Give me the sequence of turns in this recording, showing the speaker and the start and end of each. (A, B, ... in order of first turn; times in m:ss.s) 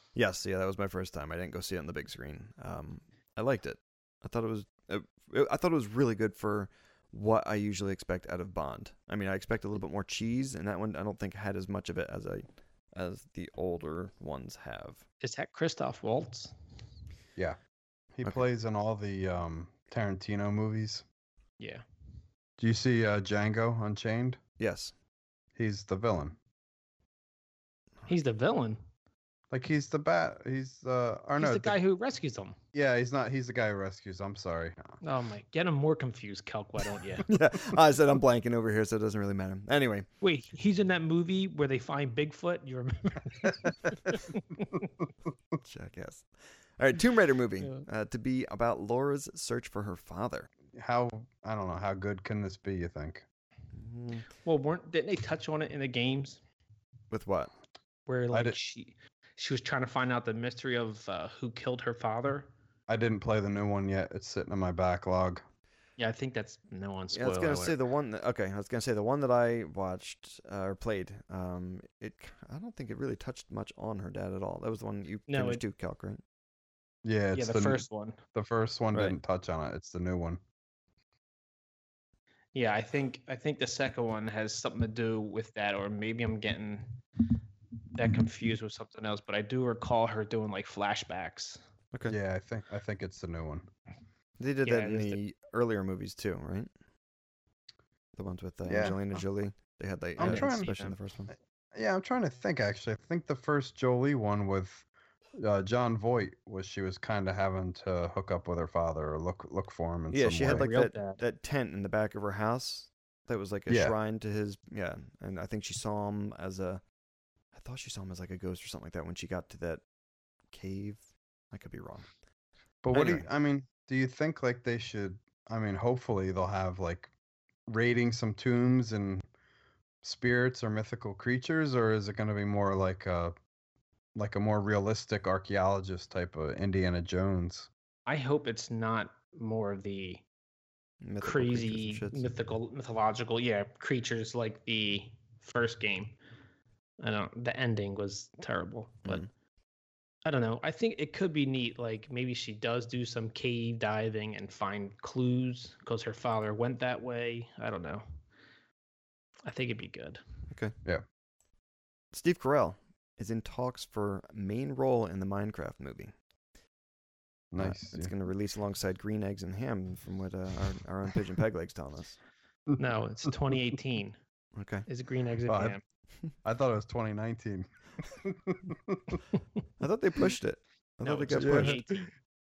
0:00.2-0:15.0 A
0:15.2-0:16.5 B
0:18.2-0:21.0 C
0:21.6-0:21.8 B
0:22.6-0:24.4 C
0:24.6-0:24.9 A
0:25.6-0:26.4 C
0:28.1-0:28.8 B
0:29.5-0:31.8 C
0:31.4-0:32.6 B
0:32.7-0:34.9 C
0:35.0-0:37.3 B
0:37.3-0:40.1 A
0:40.2-0:44.8 B
0:45.6-0:50.5 A
0:50.7-0:53.2 C
0:53.7-0:54.2 A
0:54.4-0:56.4 B
0:57.1-0:57.5 A
0:58.1-1:02.5 B
0:58.3-0:58.6 C
1:02.9-1:05.4 C
1:06.0-1:07.8 B
1:07.1-1:16.2 A
1:15.3-1:15.6 B
1:17.0-1:17.8 C
1:17.4-1:18.2 B
1:18.3-1:20.4 C
1:22.5-1:27.0 B
1:28.0-1:31.6 B
1:32.1-1:33.7 C
1:34.4-1:36.7 A
1:34.6-1:35.2 B
1:38.2-1:41.3 A
1:38.7-1:39.0 C
1:40.2-1:40.7 C
1:40.2-1:41.0 B
1:41.8-1:44.8 C
1:45.4-1:50.7 C
1:50.1-1:56.8 A
1:50.5-1:51.2 B
1:53.7-1:54.0 C
1:57.5-1:59.8 A
2:00.5-2:02.1 A
2:02.8-2:07.1 C
2:02.9-2:03.3 A
2:07.7-2:09.3 C
2:10.0-2:13.3 C
2:14.2-2:17.7 C
2:18.1-2:20.2 B
2:21.0-2:22.3 A
2:21.2-2:26.2 B
2:27.0-2:29.2 B
2:30.2-2:38.0 B
2:39.4-2:40.2 B
2:42.1-2:46.1 A
2:47.5-2:48.1 C
2:47.6-2:52.2 A
2:52.8-2:54.2 B
2:54.6-2:54.9 A
2:54.9-2:55.8 B
2:55.5-2:55.8 C
2:56.4-2:59.2 C
2:59.8-3:01.8 A
3:01.0-3:02.1 B
3:01.3-3:01.8 C